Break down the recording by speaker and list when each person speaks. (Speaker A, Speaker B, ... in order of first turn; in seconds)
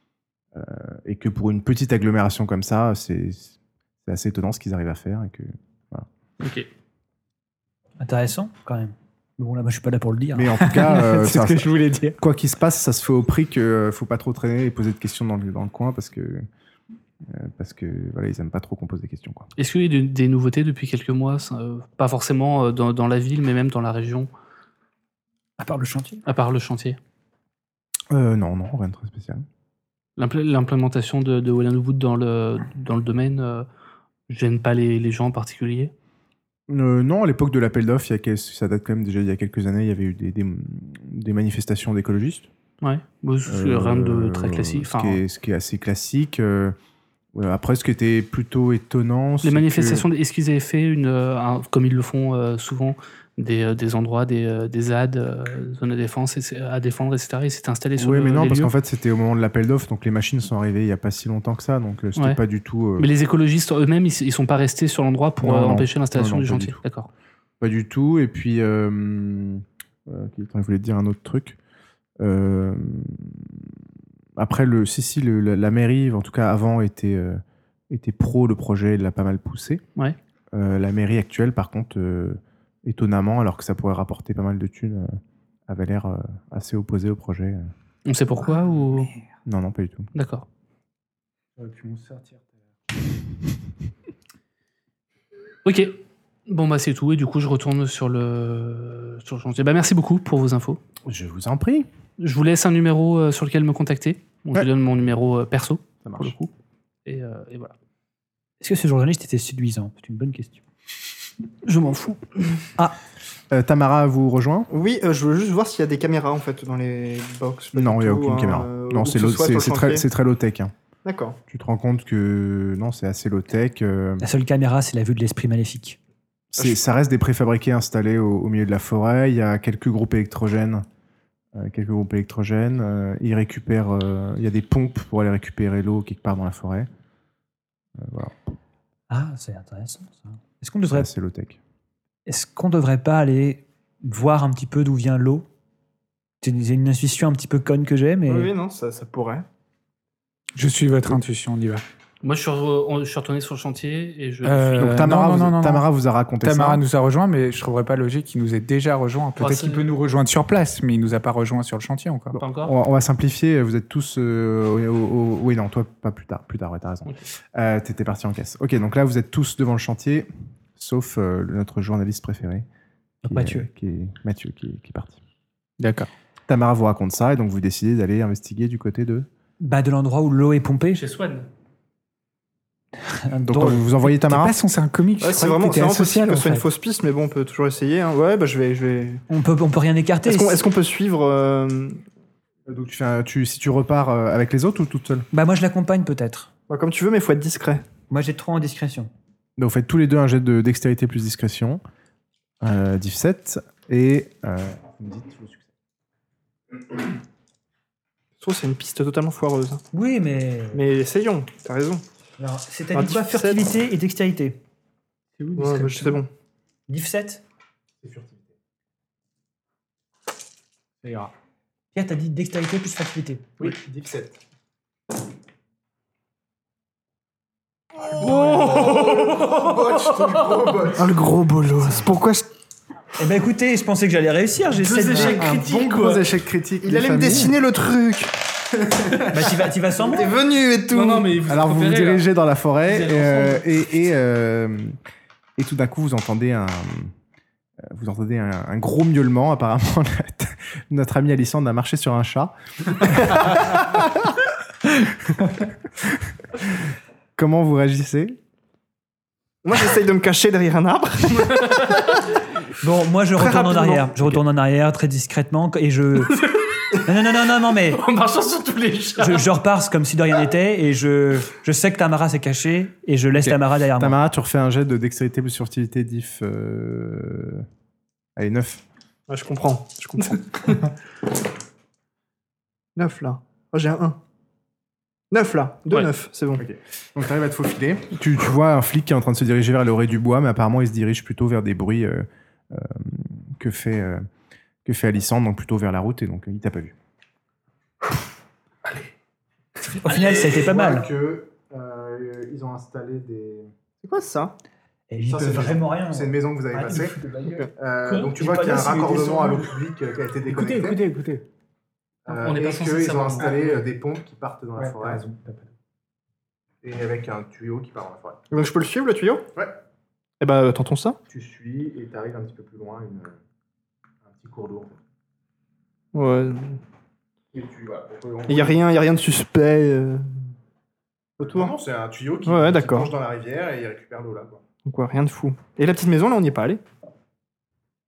Speaker A: 0.5-6.1, 10.3-16.5, 17.2-19.5, 28.1-29.4, 36.7-42.5, 43.5-46.8, 47.3-50.1, 58.0-63.1, 65.4-66.8, 67.6-71.6, 72.2-73.5, 74.4-79.8, 80.5-87.7, 89.5-90.1, 101.0-101.9, 106.0-106.4, 113.5-114.7, 117.7-120.7, 121.5-124.2, 126.5-130.9, 131.6-136.9, 138.0-138.4, 140.9-141.6, 154.8-156.8, 162.5-172.7, 173.2-175.2, 176.5-179.3, 183.5-184.6, 192.7-195.3, 199.6-201.8, 202.6-205.7, 218.0-218.5, 223.6-224.4, 228.2-231.1, 235.2-237.5, 241.4-245.0, 245.6-247.1, 247.8-254.3, 257.4-258.4, 273.3-277.6, 278.4-278.8, 286.6-294.2, 294.9-296.9, 300.1-303.7, 305.3-307.2, 307.8-311.0, 312.3-315.3, 316.8-318.4, 321.3-323.4, 324.2-325.0, 327.5-328.8, 331.4-334.6
Speaker B: 6.4-6.7, 19.6-24.3, 26.3-27.0, 30.2-33.7, 34.3-35.9, 42.8-45.2, 49.4-58.7, 63.0-67.1, 88.1-89.1, 90.2-90.5, 95.7-100.8, 102.2-106.5, 107.0-107.7, 111.7-112.6, 152.2-155.2, 159.4-159.8, 162.4-162.8, 181.0-181.5, 228.2-230.7, 234.8-236.2, 240.9-242.2, 242.8-243.6, 261.4-262.1, 266.3-267.0, 267.9-269.5, 312.3-313.8
Speaker C: 8.0-12.2, 25.6-26.2, 108.6-110.6, 124.2-126.0, 139.1-141.1, 142.3-145.5, 146.4-148.5, 173.2-173.7, 179.6-181.0, 183.3-183.9, 189.3-190.6, 195.3-196.5, 198.1-199.1, 209.9-210.8, 212.4-214.6, 216.9-217.4, 221.9-223.5, 233.2-235.5, 239.3-240.4, 262.8-266.4, 267.0-268.0, 269.2-274.2, 300.0-301.1, 305.1-309.8
Speaker D: 91.6-92.4, 150.6-151.8, 154.4-155.9, 156.4-162.4, 175.8-176.1, 184.0-186.7, 215.4-216.1, 221.0-221.3, 310.5-311.4, 314.8-315.7
Speaker E: 114.7-120.1, 121.0-121.4, 148.3-149.4, 185.2-189.2, 190.2-192.0, 196.7-197.9, 208.4-209.8, 210.7-212.0, 212.9-213.7, 215.6-216.3, 230.9-232.4, 236.8-238.3, 240.1-241.2, 259.6-262.0, 263.4-264.1, 279.3-280.9, 283.0-284.2, 285.3-286.6, 304.0-304.6, 318.5-319.5, 320.4-321.2, 326.1-326.8, 328.5-330.2, 331.4-331.7, 332.4-333.1, 334.9-336.8